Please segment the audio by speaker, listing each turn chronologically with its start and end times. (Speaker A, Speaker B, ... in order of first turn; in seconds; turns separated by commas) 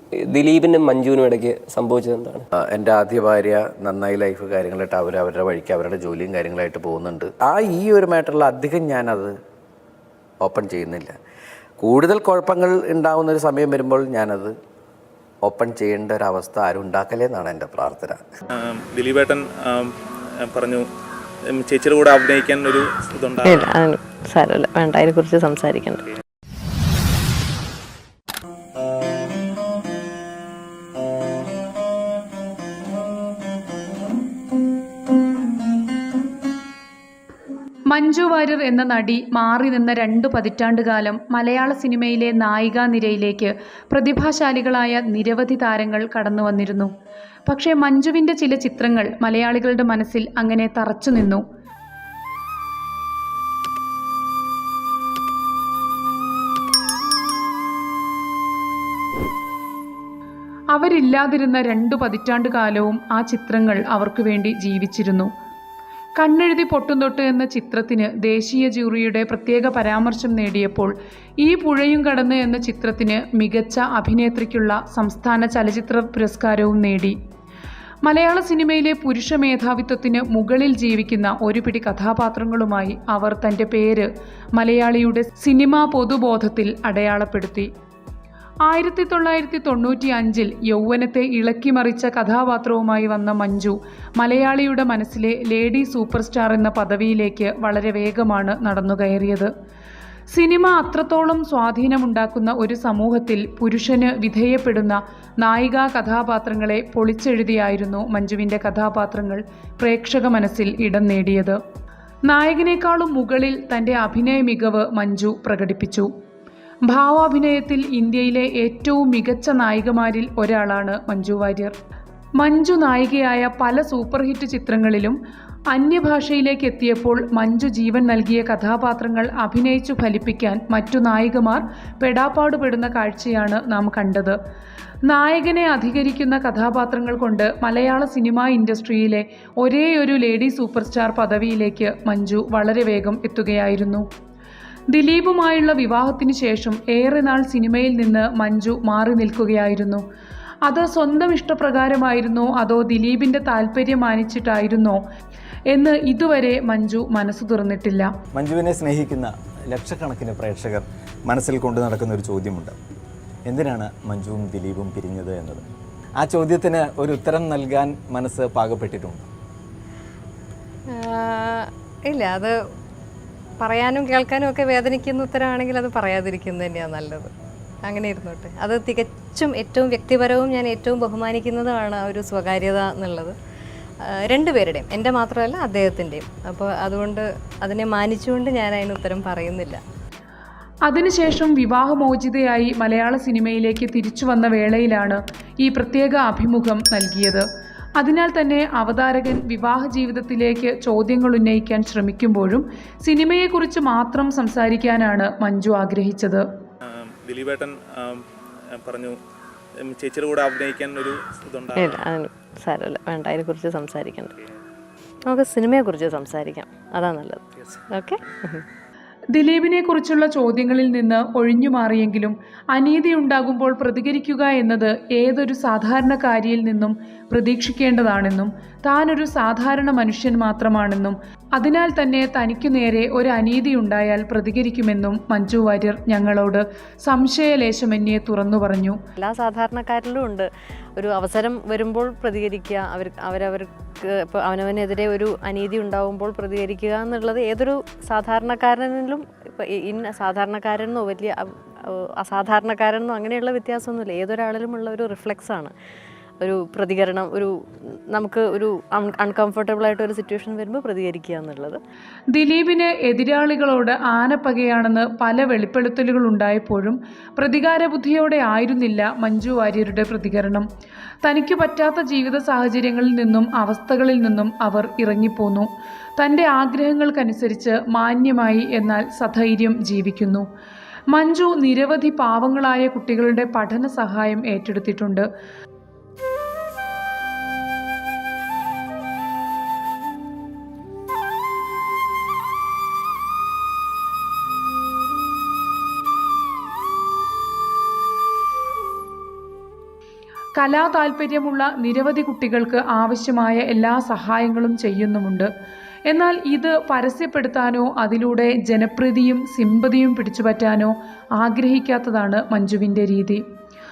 Speaker A: 0.3-2.4, Speaker B: 2.7-9.3, Speaker B: 10.4-11.1, Speaker B: 11.8-14.5, Speaker B: 15.4-18.2, Speaker C: 18.5-20.8, Speaker C: 21.5-23.7, Speaker D: 23.4-26.0, Speaker E: 37.9-46.9, Speaker E: 47.5-51.4, Speaker E: 60.7-65.3, Speaker E: 66.2-77.2, Speaker E: 78.0-87.7, Speaker E: 88.7-99.5, Speaker E: 100.3-111.6, Speaker E: 112.3-116.1, Speaker E: 116.8-121.7, Speaker E: 122.4-125.2, Speaker E: 125.7-134.3, Speaker E: 135.1-144.0, Speaker E: 144.9-150.0, Speaker E: 150.7-155.0, Speaker E: 155.7-158.1, Speaker F: 158.3-162.8, Speaker F: 163.4-165.6, Speaker F: 166.2-169.3, Speaker D: 170.9-172.5, Speaker D: 173.6-177.3, Speaker D: 177.8-183.3, Speaker D: 184.2-189.8, Speaker E: 190.8-197.4, Speaker E: 198.0-206.5, Speaker C: 206.9-208.2, Speaker C: 208.7-209.2, Speaker C: 209.9-212.0, Speaker D: 211.8-214.3, Speaker D: 215.3-218.6, Speaker C: 217.6-217.8, Speaker E: 219.3-239.0, Speaker D: 239.2-255.7, Speaker D: 256.4-261.8, Speaker E: 262.3-270.6, Speaker E: 271.2-280.4, Speaker E: 281.1-285.2, Speaker E: 300.6-305.5, Speaker E: 306.1-313.4